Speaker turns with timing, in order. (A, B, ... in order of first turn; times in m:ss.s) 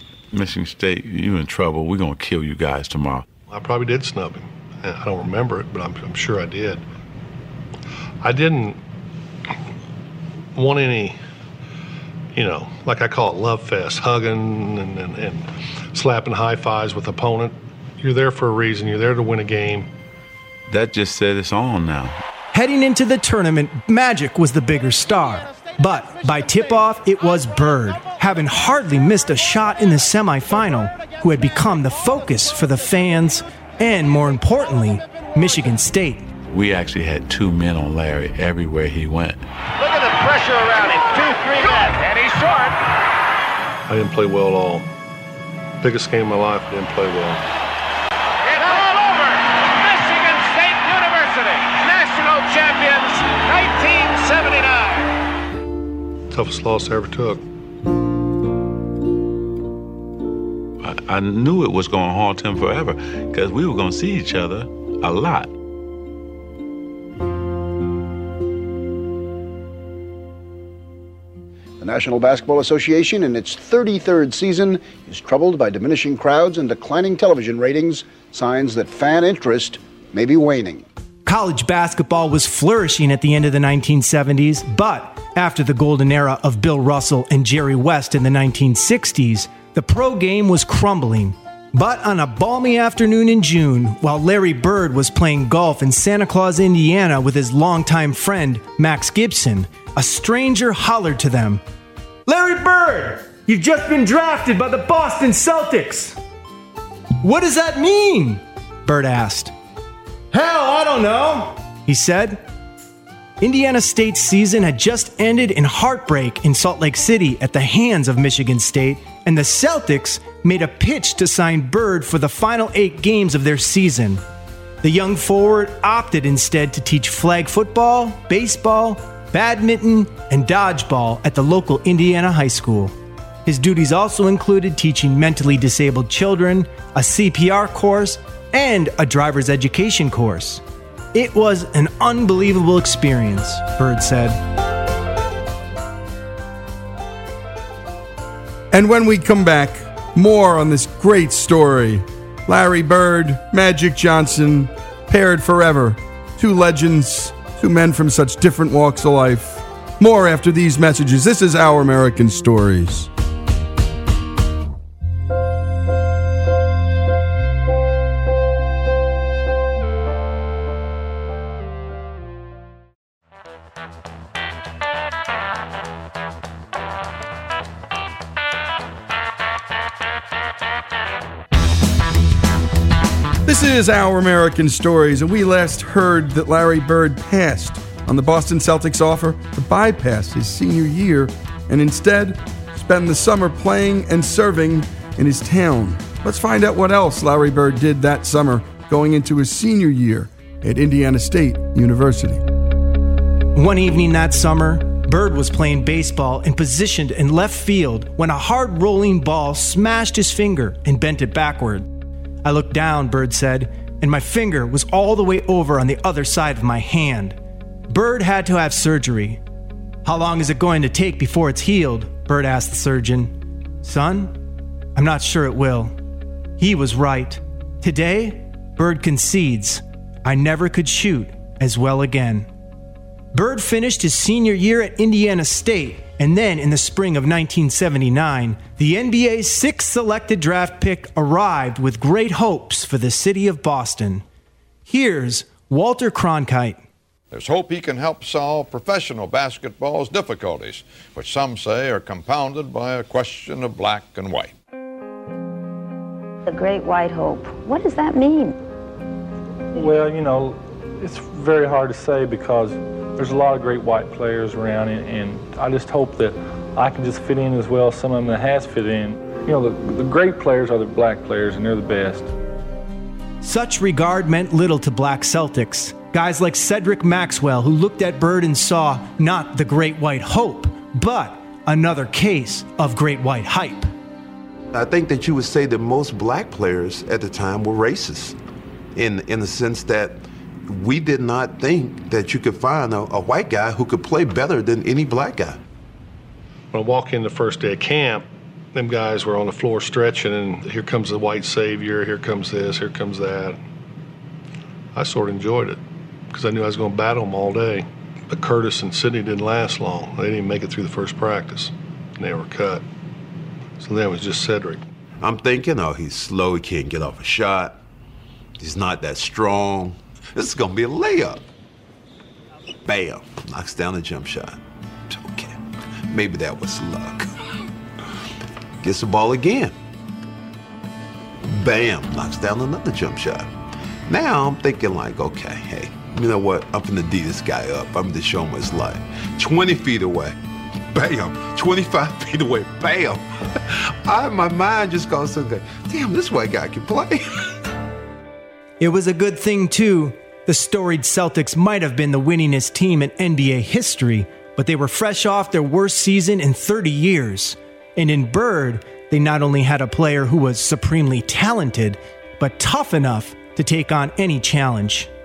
0:00.3-0:03.3 A
0:03.5-0:06.8 B
0:08.2-0:08.8 B
0:10.6-0:11.2 B
0:12.4-0:19.9 B
0:20.7-0:22.2 A
0:22.5-0:36.3 C
0:36.5-0:39.4 A
0:39.8-0:42.8 D
0:43.9-0:44.9 B
0:45.8-0:47.4 B
0:48.5-0:55.1 D
0:56.3-0:57.4 B
1:00.8-1:05.5 A
1:11.8-1:20.8 E
1:21.3-1:41.6 C
1:42.3-1:46.2 C
1:47.2-1:49.5 C
1:50.3-1:52.4 C
1:53.4-2:04.2 C
2:04.8-2:13.0 C
2:13.5-2:20.6 C
2:21.1-2:24.4 C
2:28.7-2:43.1 F
3:03.4-3:22.4 F
3:23.6-3:31.9 C
3:32.4-3:37.4 C
3:37.9-3:39.4 C
3:40.0-3:44.4 C
3:45.0-3:46.0 C
3:46.6-3:52.5 C
3:53.3-4:04.2 C
4:04.9-4:06.8 C
4:07.3-4:14.5 G
4:16.5-4:18.5 H
4:19.7-4:32.3 I
4:33.4-4:43.9 C
4:44.7-4:48.4 J
4:49.0-4:55.6 J
4:56.7-5:03.6 B
5:05.0-5:05.8 B
5:06.3-5:12.8 B
5:13.8-5:14.8 B
5:15.2-5:17.8 J
5:18.6-5:21.4 J
5:22.8-5:25.6 J
5:26.1-5:27.3 J
5:28.8-5:29.8 J
5:31.4-5:33.5 J
5:34.1-5:40.4 J
5:40.9-5:47.2 J
5:48.8-6:05.1 C